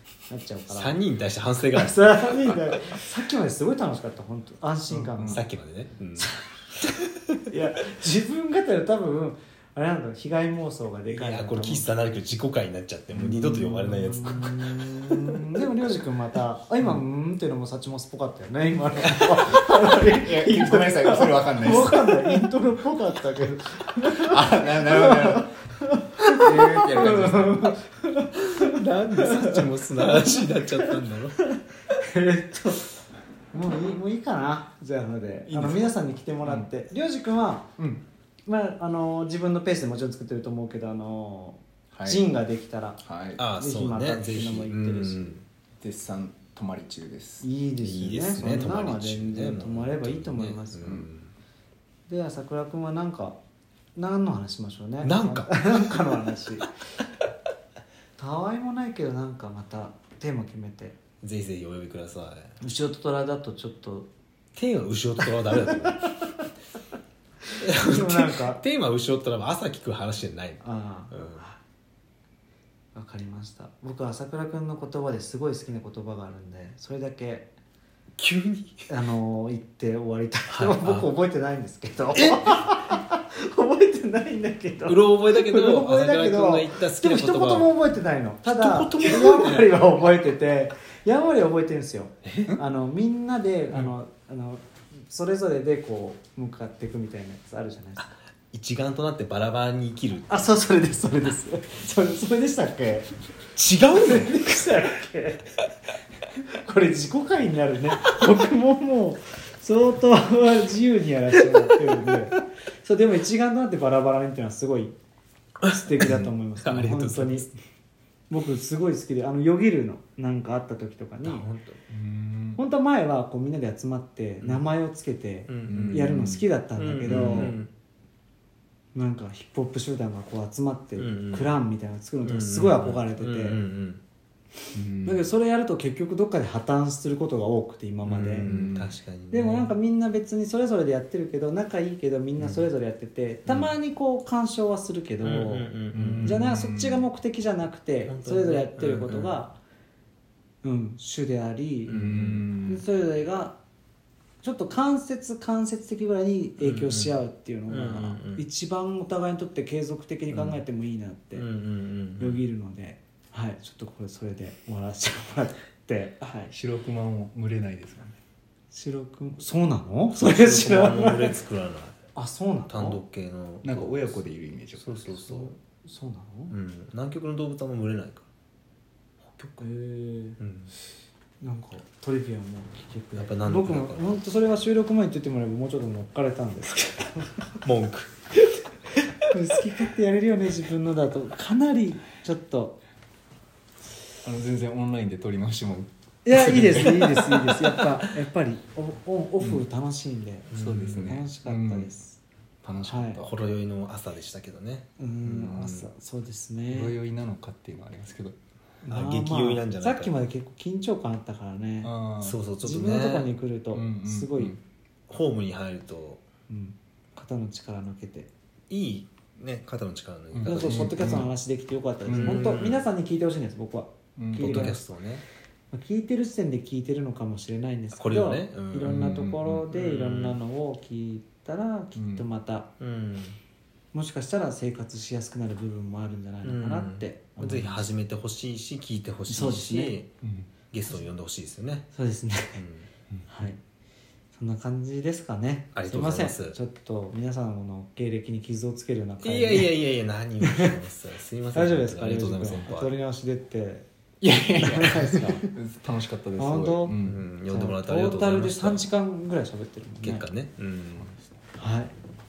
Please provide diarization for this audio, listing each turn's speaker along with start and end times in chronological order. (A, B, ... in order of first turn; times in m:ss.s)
0:00.3-0:01.0 A
0:00.7-0:02.7 B
0:01.7-0:05.4 A
0:04.9-0:05.4 C
0:05.3-0:07.4 B
0:06.2-0:06.5 A
0:07.5-0:11.9 A
0:11.1-0:14.7 B
0:13.2-0:32.8 A
0:19.0-0:22.5 C
0:24.0-0:25.5 C
0:26.3-0:27.8 C
0:28.4-0:31.4 B
0:33.5-0:37.7 A
0:35.5-0:35.9 C
0:37.8-0:38.0 C
0:38.5-0:43.0 A
0:41.9-0:42.2 C
0:43.0-0:43.4 C
0:43.4-0:45.4 B
0:43.6-0:45.2 A
0:45.8-0:47.5 C
0:47.4-0:51.0 A
0:47.8-0:51.3 B
0:48.4-0:48.7 C
0:50.8-0:51.1 C
0:52.1-0:53.4 A
0:54.0-0:56.7 A
0:55.0-0:56.0 B
0:58.2-1:01.0 A
1:01.2-1:02.6 B
1:02.6-1:04.1 A
1:04.6-1:06.2 B
1:05.6-1:06.0 A
1:07.5-1:08.6 A
1:07.6-1:11.5 B
1:10.6-1:11.6 A
1:13.0-1:17.5 A
1:18.2-1:18.9 B
1:18.9-1:38.1 A
1:20.5-1:21.1 B
1:22.1-1:22.8 B
1:24.9-1:27.7 B
1:28.4-1:29.8 B
1:32.2-1:32.5 B
1:38.0-1:40.5 B
1:40.3-1:43.1 A
1:43.6-1:44.4 B
1:43.9-1:45.6 A
1:46.4-1:55.0 A
1:55.6-1:57.5 B
1:55.7-1:57.5 A
1:56.0-1:56.3 C
1:58.3-2:01.5 A
2:01.2-2:01.8 B
2:01.9-2:02.6 C
2:02.6-2:07.6 A
2:05.5-2:06.2 B
2:05.7-2:06.4 C
2:06.8-2:07.7 B
2:07.1-2:07.6 C
2:09.0-2:13.6 A
2:11.0-2:11.5 B
2:12.2-2:14.0 B
2:14.7-2:15.3 C
2:15.0-2:18.5 A
2:18.1-2:19.7 B
2:18.4-2:18.9 C
2:19.3-2:25.7 A
2:22.4-2:22.6 B
2:23.5-2:23.7 B
2:25.2-2:26.4 B
2:25.9-2:27.0 C
2:26.2-2:29.6 A
2:28.1-2:29.4 B
2:30.6-2:32.0 A
2:31.9-2:32.5 B
2:31.9-2:32.8 C
2:32.6-2:33.6 A
2:34.4-2:41.4 A
2:36.6-2:37.2 B
2:37.7-2:38.4 B
2:40.3-2:40.6 B
2:41.4-2:42.4 B
2:42.2-2:46.5 A
2:46.5-2:48.2 C
2:48.7-2:51.4 A
2:50.1-2:52.0 B
2:52.2-2:53.0 A
2:52.7-2:54.2 B
2:53.6-2:55.2 C
2:54.8-2:55.6 B
2:55.3-2:56.5 A
2:56.5-2:58.3 B
2:59.2-2:59.7 B
2:59.6-3:00.4 A
3:00.4-3:00.7 B
3:01.4-3:07.6 A
3:03.2-3:04.2 B
3:07.6-3:08.1 B
3:09.2-3:12.8 A
3:14.2-3:18.2 C
3:16.2-3:22.2 A
3:20.5-3:21.2 B
3:20.5-3:21.9 C
3:22.6-3:23.3 C
3:22.7-3:25.9 B
3:22.9-3:23.2 A
3:25.0-3:27.0 A
3:26.7-3:28.4 C
3:28.8-3:31.9 A
3:28.9-3:30.2 B
3:31.8-3:32.4 C
3:32.2-3:33.3 B
3:32.6-3:34.6 A
3:33.7-3:34.6 C
3:35.1-3:36.2 B
3:36.5-3:38.3 A
3:38.7-3:41.1 B
3:40.3-3:41.3 C
3:40.4-3:44.8 A
3:42.1-3:42.5 C
3:42.1-3:42.8 B
3:44.2-3:44.8 C
3:44.4-3:45.2 B
3:45.7-3:52.7 A
3:47.9-3:50.4 B
3:48.8-3:49.4 C
3:52.0-3:52.3 C
3:52.8-3:53.4 B
3:53.9-3:57.9 A
3:56.4-4:00.1 B
3:59.3-4:00.0 A
4:00.2-4:00.5 C
4:00.7-4:01.9 B
4:01.9-4:02.6 A
4:02.6-4:02.9 B
4:03.3-4:03.6 A
4:04.4-4:09.7 A
4:05.8-4:06.6 B
4:09.2-4:12.9 B
4:10.4-4:10.7 A
4:11.5-4:13.9 A
4:14.2-4:17.2 C
4:14.6-4:15.5 A
4:16.4-4:17.0 A
4:17.0-4:18.8 B
4:17.5-4:20.3 A
4:20.0-4:21.1 B
4:21.0-4:21.3 C
4:21.6-4:21.9 A